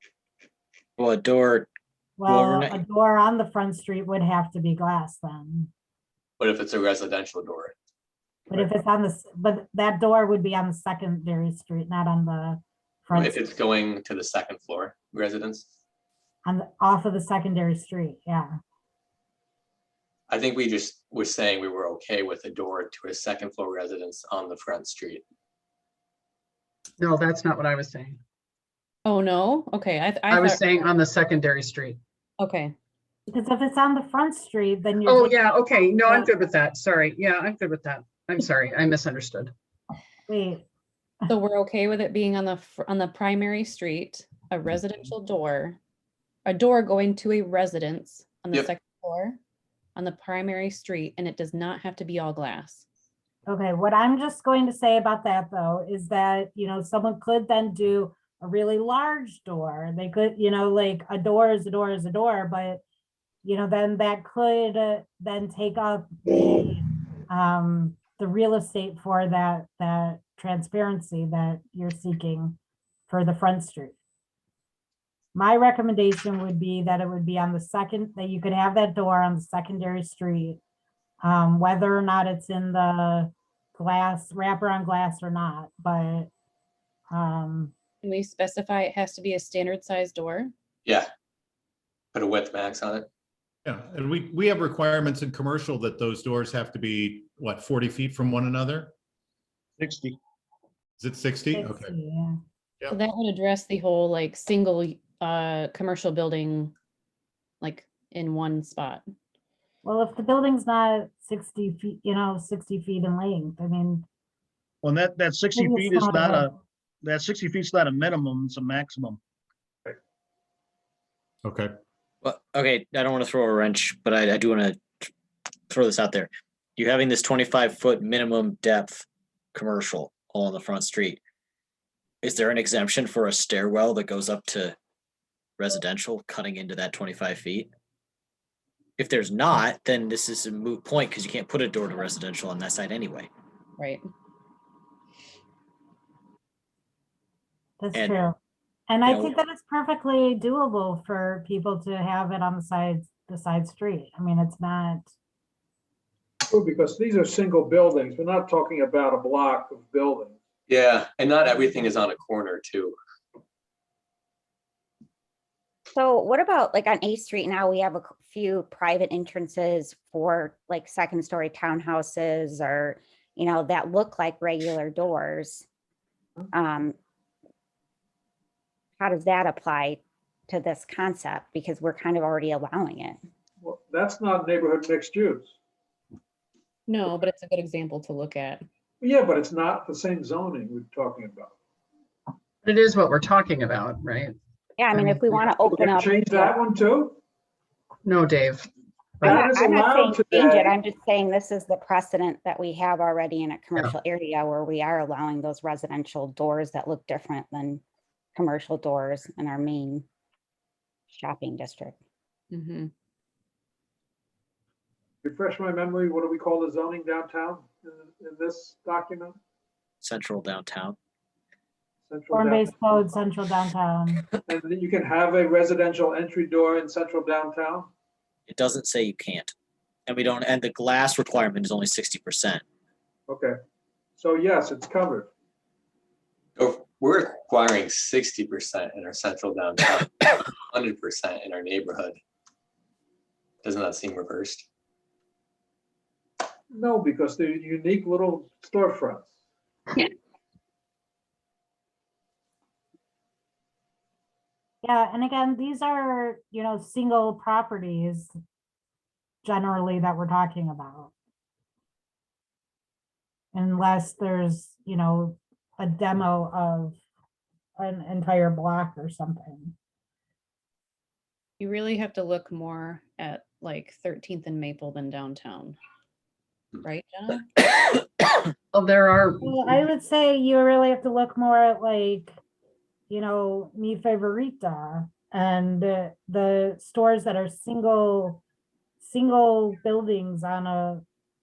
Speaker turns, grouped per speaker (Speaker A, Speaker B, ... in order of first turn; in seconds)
Speaker A: 1.0-1.7, 2.2-2.8, 122.2-125.1, 125.7-131.2, 132.2-134.8, 135.6-137.7, 139.0-143.3, 147.9-148.2, 149.0-149.4, 220.0-221.0, 228.5-229.5, 230.1-232.6
Speaker B: 2.2-5.7, 8.5-13.4, 16.4-18.5, 33.3-36.3, 40.3-40.6, 53.5-62.8, 63.4-72.6, 73.1-74.0, 75.3-80.6, 81.2-86.3, 87.1-87.7, 101.5-102.3, 109.8-114.0, 115.5-116.5, 147.8-148.4, 148.9-155.1, 222.3-224.3, 254.8-258.3, 259.4-261.1, 263.5-267.0, 267.8-269.7, 279.4-282.3, 283.1-288.4, 289.0-291.0
Speaker C: 6.4-7.7, 13.1-15.7, 20.3-25.2, 92.1-93.1, 160.7-162.9, 236.6-242.2, 243.6-244.7
Speaker D: 27.0-28.2, 30.3-32.0, 35.0-39.5, 192.6-194.4, 194.9-195.5, 198.0-198.7, 278.7-279.7
Speaker E: 29.0-30.8, 32.4-32.7, 41.3-45.8, 46.5-49.4, 50.0-52.8, 88.0-90.5, 102.9-106.7, 107.6-109.0, 143.8-144.1, 186.9-188.6, 212.5-212.9, 271.6-275.8, 276.8-277.6
Speaker F: 93.6-98.9, 101.0-101.9, 121.4-121.7
Speaker G: 99.8-100.2, 114.8-119.2
Speaker H: 156.5-160.4, 183.6-185.5, 189.0-191.5, 195.6-197.2, 199.2-200.7, 215.2-219.3, 222.1-222.7, 224.5-227.9, 233.3-233.6, 234.2-235.3, 246.7-249.3
Speaker I: 165.9-175.7, 176.5-176.9, 179.0-183.2, 194.8-196.6, 199.2-207.8, 208.3-210.0, 211.1-211.9